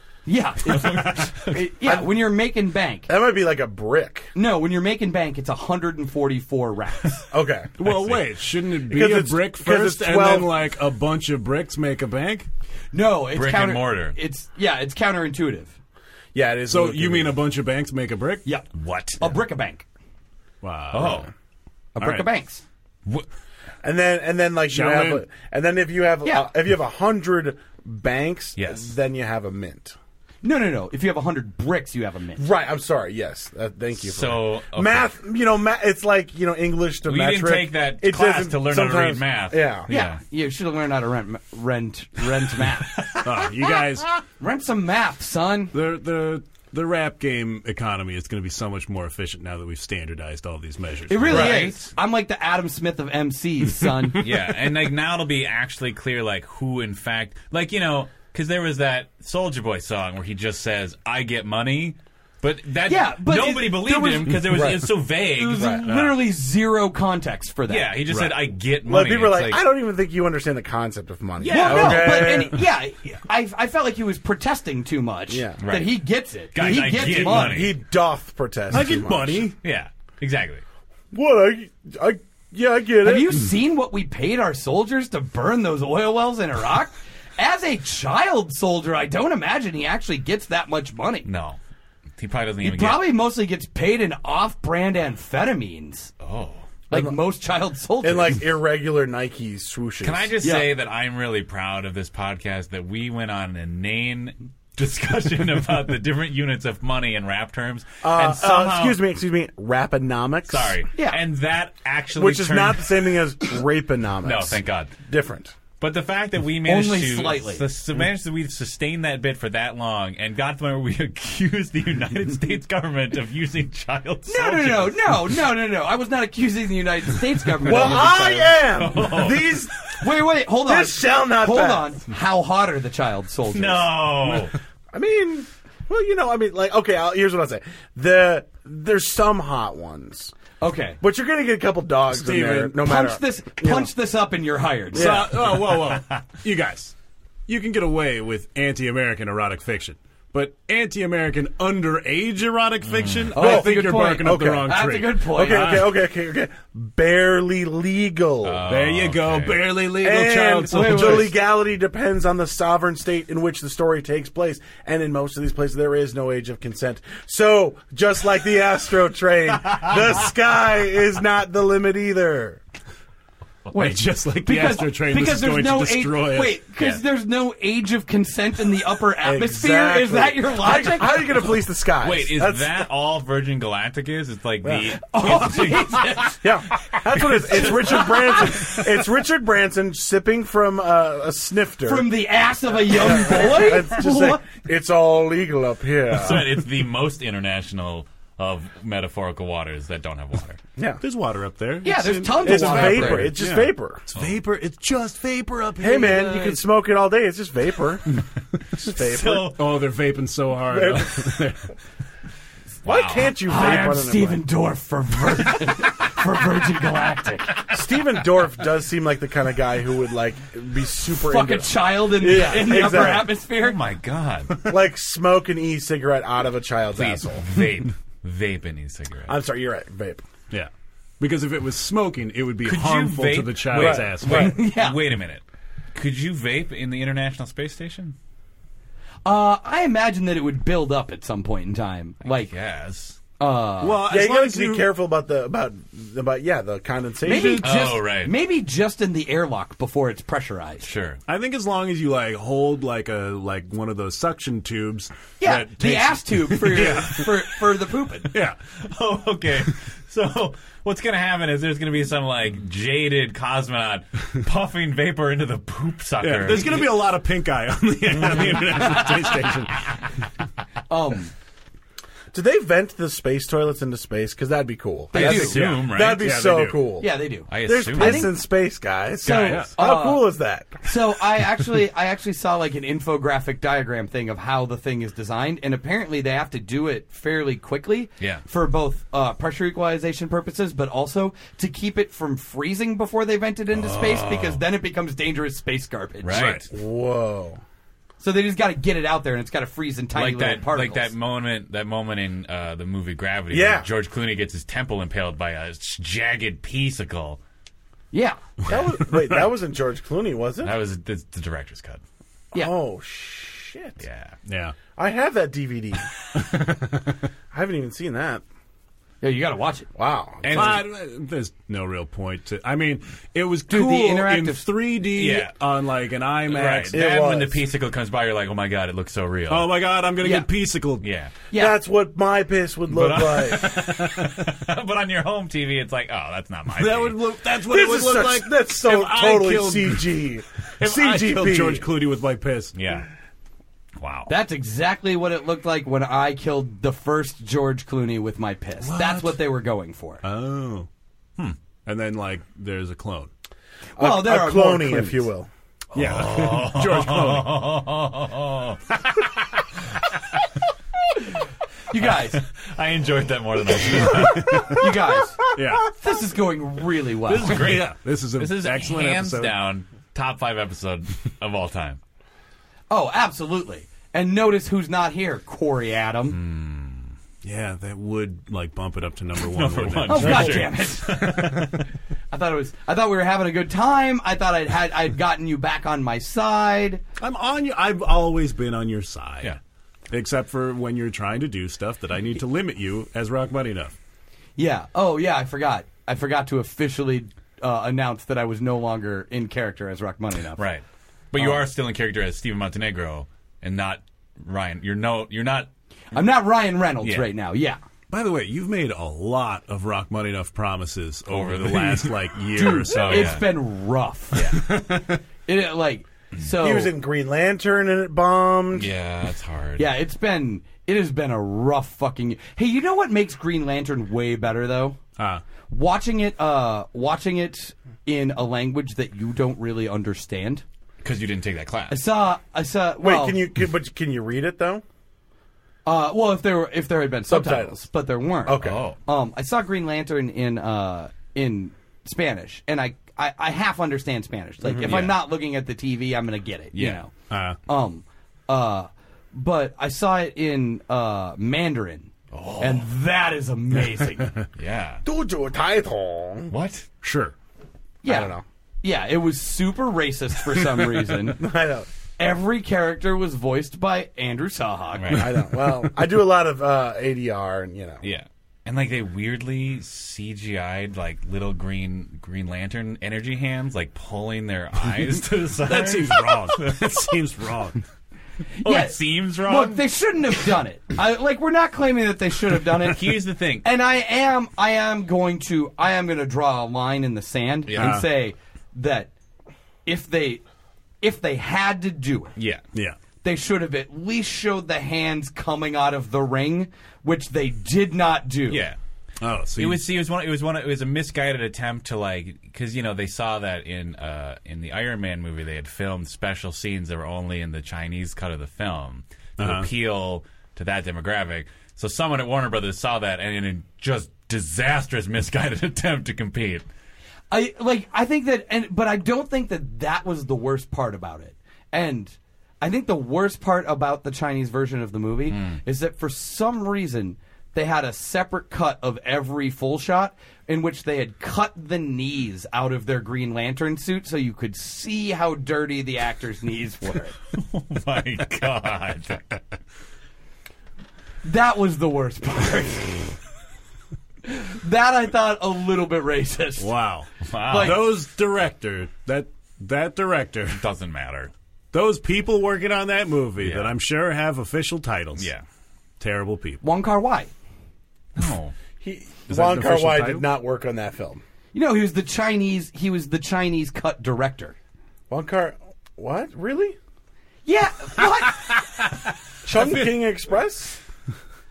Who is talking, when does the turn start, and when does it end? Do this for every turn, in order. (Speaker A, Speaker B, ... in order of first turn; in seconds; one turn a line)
Speaker A: 0.3-3.1
Speaker B: 0.6-1.7
Speaker C: 3.1-4.3
Speaker A: 4.3-7.2
Speaker C: 7.3-7.7
Speaker D: 7.8-12.5
Speaker B: 7.8-8.3
Speaker C: 8.9-10.5
Speaker A: 12.9-15.7
Speaker B: 13.3-14.2
Speaker C: 16.3-17.4
Speaker D: 16.7-18.5
Speaker A: 18.4-19.9
Speaker B: 18.7-19.3
Speaker D: 20.6-21.3
Speaker B: 20.9-21.3
Speaker A: 22.0-22.6
Speaker C: 23.8-30.0
Speaker D: 24.7-25.2
Speaker A: 26.2-26.5
Speaker B: 28.6-28.9
Speaker A: 30.4-32.5
Speaker C: 32.4-39.9
Speaker B: 34.0-35.1
Speaker B: 37.0-40.2
Speaker A: 39.9-43.0
Speaker B: 43.0-43.5
Speaker D: 43.2-44.1
Speaker A: 44.4-45.7
Speaker D: 45.7-51.6
Speaker A: 51.1-54.3
Speaker B: 51.3-51.9
Speaker C: 51.3-51.6
Speaker B: 54.2-65.9
Speaker A: 62.9-64.5
Speaker C: 64.5-64.9
Speaker A: 65.3-68.0
Speaker C: 65.6-65.8
Speaker D: 65.9-66.1
Speaker B: 67.7-69.6
Speaker D: 68.1-68.4
Speaker C: 68.8-72.6
Speaker D: 71.4-72.3
Speaker A: 71.4-77.7
Speaker B: 71.6-71.9
Speaker C: 75.3-75.6
Speaker B: 75.6-77.8
Speaker C: 76.7-79.5
Speaker D: 78.7-79.6
Speaker B: 79.6-80.6
Speaker C: 81.1-83.4
Speaker A: 83.0-91.3
Speaker B: 91.2-91.6
Speaker B: 92.2-93.1
Speaker A: 92.6-96.1
Speaker B: 96.2-96.7
Speaker A: 96.9-98.5
Speaker C: 96.9-97.2
Speaker C: 98.0-100.3
Speaker B: 100.0-109.0
Speaker A: 100.4-100.7
Speaker C: 108.0-110.8
Speaker B: 110.5-113.2
Speaker C: 112.2-115.6
Speaker B: 114.2-114.9
Speaker B: 115.8-125.3
Speaker A: 116.6-117.7
Speaker A: 124.3-128.7
Speaker C: 127.6-129.9
Speaker B: 128.7-129.7
Speaker A: 130.0-134.1
Speaker C: 130.6-131.9
Speaker B: 133.5-134.5
Speaker C: 134.9-140.3
Speaker A: 140.6-141.0
Speaker C: 141.0-143.9
Speaker D: 142.1-142.8
Speaker A: 142.8-145.2
Speaker C: 144.9-145.5
Speaker D: 144.9-146.9
Speaker B: 145.4-146.0
Speaker D: 147.5-155.9
Speaker B: 152.8-153.3
Speaker A: 153.3-155.8
Speaker C: 153.3-154.8
Speaker C: 155.3-158.7
Speaker B: 158.4-159.8
Speaker D: 158.7-161.3
Speaker C: 159.9-172.6
Speaker A: 160.7-161.3
Speaker A: 173.7-181.3
Speaker D: 173.7-176.6
Speaker C: 179.2-182.8
Speaker B: 182.0-188.8
Speaker C: 184.6-184.9
Speaker A: 185.0-186.4
Speaker C: 186.4-192.1
Speaker A: 191.9-194.4
Speaker C: 192.9-196.5
Speaker B: 196.1-200.6
Speaker C: 200.8-201.0
Speaker D: 201.0-206.6
Speaker A: 201.8-203.5
Speaker C: 202.4-204.0
Speaker C: 205.8-208.2
Speaker C: 208.7-209.6
Speaker B: 208.8-209.6
Speaker D: 209.5-211.7
Speaker C: 210.7-211.3
Speaker B: 212.8-213.4
Speaker C: 212.8-214.4
Speaker A: 213.4-217.7
Speaker C: 217.7-223.3
Speaker A: 221.2-223.8
Speaker B: 222.8-224.7
Speaker C: 224.6-227.5
Speaker B: 226.9-229.4
Speaker C: 229.3-230.2
Speaker D: 230.5-234.5
Speaker B: 232.6-235.4
Speaker C: 233.7-234.6
Speaker A: 234.3-235.0
Speaker B: 235.9-238.2
Speaker A: 239.2-242.5
Speaker B: 242.2-243.2
Speaker A: 243.4-244.0
Speaker D: 243.8-244.9
Speaker C: 244.1-247.7
Speaker A: 247.2-250.9
Speaker B: 247.6-248.3
Speaker B: 250.8-251.2
Speaker D: 251.3-257.6
Speaker A: 255.4-258.4
Speaker D: 258.3-258.6
Speaker B: 258.8-267.1
Speaker D: 266.2-269.9
Speaker B: 268.1-269.1
Speaker A: 270.9-271.3
Speaker C: 272.3-280.8
Speaker A: 275.1-275.6
Speaker B: 275.1-276.4
Speaker D: 275.6-276.8
Speaker A: 277.0-278.3
Speaker B: 277.5-278.3
Speaker B: 279.2-279.7
Speaker A: 279.2-280.3
Speaker A: 280.8-296.6
Speaker B: 288.2-288.4
Speaker B: 293.7-294.6
Speaker B: 296.2-296.7
Speaker C: 296.7-297.6
Speaker A: 298.2-301.1
Speaker B: 300.1-307.4
Speaker C: 303.5-303.9
Speaker A: 308.1-308.4
Speaker B: 308.7-309.0
Speaker C: 308.7-310.8
Speaker B: 310.6-312.0
Speaker C: 312.5-314.0
Speaker B: 314.0-314.4
Speaker D: 314.5-314.8
Speaker C: 314.9-316.1
Speaker D: 316.4-317.1
Speaker C: 317.5-318.4
Speaker A: 319.2-319.9
Speaker C: 319.9-320.8
Speaker B: 320.4-320.9
Speaker D: 320.5-327.0
Speaker A: 323.7-324.7
Speaker B: 325.1-325.6
Speaker B: 326.5-329.8
Speaker C: 326.9-327.7
Speaker D: 329.5-331.1
Speaker A: 330.2-330.5
Speaker B: 331.0-331.3
Speaker A: 331.5-331.8
Speaker C: 331.5-333.9
Speaker B: 332.9-337.2
Speaker D: 333.6-334.5
Speaker D: 336.7-340.1
Speaker C: 337.6-341.9
Speaker D: 340.8-342.8
Speaker B: 342.7-343.1
Speaker B: 344.0-344.3
Speaker A: 344.3-350.2
Speaker D: 348.8-349.4
Speaker D: 350.2-350.9
Speaker D: 351.8-353.3
Speaker A: 354.0-355.3
Speaker C: 354.0-355.5
Speaker B: 355.9-359.3
Speaker D: 355.9-357.7
Speaker A: 361.9-362.4
Speaker B: 362.0-364.7
Speaker C: 364.3-364.8
Speaker D: 364.4-364.7
Speaker A: 364.7-367.7
Speaker D: 365.6-365.9
Speaker B: 367.3-372.0
Speaker D: 367.4-369.5
Speaker A: 372.9-376.4
Speaker B: 376.3-377.1
Speaker D: 377.4-380.7
Speaker B: 379.4-381.9
Speaker A: 380.1-381.7
Speaker A: 382.3-387.0
Speaker D: 387.2-389.6
Speaker D: 390.1-394.0
Speaker A: 394.6-400.6
Speaker B: 400.6-405.7
Speaker A: 401.4-401.6
Speaker A: 406.1-407.8
Speaker B: 407.0-407.3
Speaker D: 408.1-413.4
Speaker B: 411.3-413.5
Speaker A: 412.6-416.9
Speaker B: 414.3-414.6
Speaker D: 414.5-415.2
Speaker C: 416.6-418.9
Speaker B: 418.8-419.9
Speaker A: 419.8-425.0
Speaker D: 425.2-425.4
Speaker A: 425.7-430.6
Speaker B: 431.0-432.0
Speaker A: 431.9-433.4
Speaker C: 433.0-434.8
Speaker A: 435.9-447.1
Speaker C: 437.3-437.8
Speaker C: 438.4-438.8
Speaker B: 438.6-439.0
Speaker C: 444.6-445.1
Speaker B: 444.8-445.2
Speaker B: 446.7-447.0
Speaker D: 447.3-447.6
Speaker A: 447.7-454.3
Speaker B: 452.3-452.9
Speaker B: 454.6-455.0
Speaker C: 455.0-456.5
Speaker B: 456.5-456.9
Speaker D: 457.0-457.3
Speaker A: 458.0-461.5
Speaker C: 458.1-458.4
Speaker C: 461.4-461.9
Speaker A: 462.2-465.2
Speaker B: 465.0-465.4
Speaker C: 465.1-468.0
Speaker B: 468.0-477.1
Speaker D: 475.6-477.8
Speaker A: 478.6-489.1
Speaker B: 478.6-479.8
Speaker B: 482.8-483.7
Speaker B: 487.7-488.0
Speaker D: 487.8-488.1
Speaker A: 489.9-490.4
Speaker A: 491.0-492.3
Speaker B: 492.4-492.6
Speaker A: 493.2-498.6
Speaker B: 498.5-498.8
Speaker D: 499.2-499.8
Speaker B: 499.6-516.7
Speaker D: 509.4-509.7
Speaker A: 517.3-537.2
Speaker B: 525.3-525.6
Speaker B: 537.4-539.4
Speaker A: 541.2-543.1
Speaker A: 544.3-546.7
Speaker D: 546.6-550.6
Speaker B: 547.2-548.0
Speaker A: 547.5-547.9
Speaker B: 550.5-551.3
Speaker D: 551.7-555.3
Speaker B: 553.4-553.8
Speaker B: 555.1-555.4
Speaker D: 556.0-556.6
Speaker A: 556.6-557.3
Speaker B: 558.1-558.5
Speaker C: 558.8-561.2
Speaker D: 559.3-560.3
Speaker A: 561.5-564.6
Speaker C: 565.1-566.8
Speaker A: 567.5-568.5
Speaker C: 569.4-570.8
Speaker D: 569.6-569.9